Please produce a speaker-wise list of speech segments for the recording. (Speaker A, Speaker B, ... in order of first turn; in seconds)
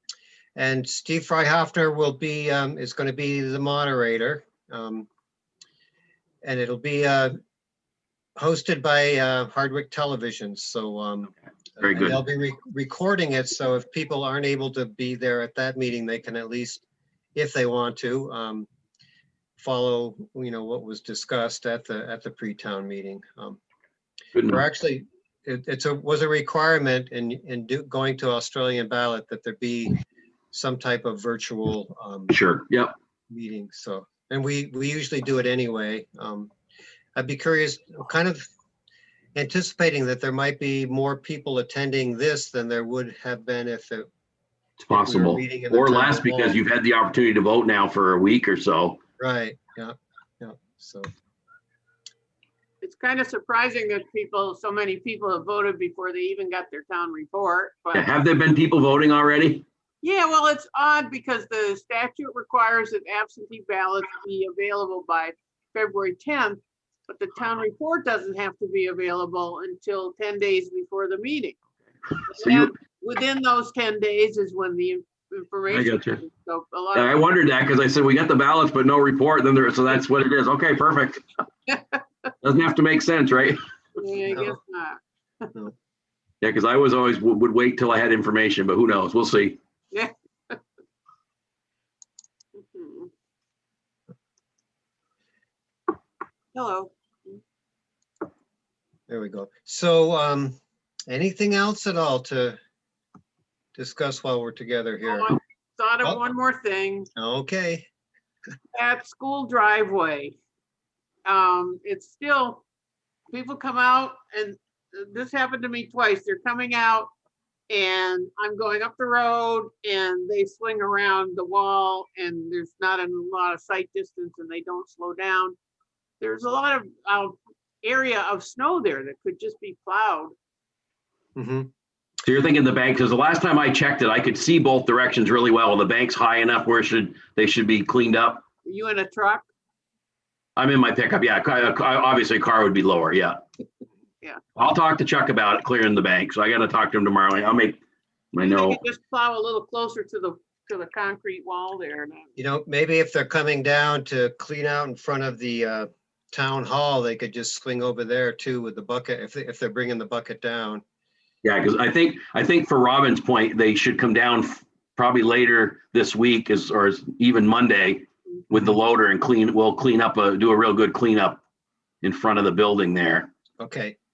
Speaker A: 0.6-5.1, 6.4-7.3, 8.4-16.8, 17.3-18.7, 19.6-23.6, 24.4-30.0, 30.5-32.3, 33.3-36.5, 37.1-38.4, 39.3-44.1, 44.9-46.6, 49.2-51.1, 84.3-84.5, 99.1-100.6, 101.1-102.6, 103.7-105.3, 107.2-107.9, 131.3-131.7, 152.4-160.8, 173.6-173.9
Speaker B: 11.8-12.2, 24.3-24.6, 32.3-32.9, 44.8-49.0, 57.9-59.6, 72.4-72.7, 75.7-76.2, 76.9-81.2, 82.4-83.6, 86.4-89.6, 132.2-138.4, 140.6-143.4, 144.6-147.8, 148.3-148.8, 161.4-171.4, 172.0-173.3
Speaker C: 52.8-58.1, 60.0-71.5, 72.3-77.3, 81.7-82.0, 84.0-85.4, 89.9-90.6, 92.6-93.1, 96.5-97.4, 105.0-107.1, 108.7-110.3, 111.2-112.6, 113.3-117.1, 117.7-125.5, 126.2-130.3, 138.6-139.4, 148.4-152.3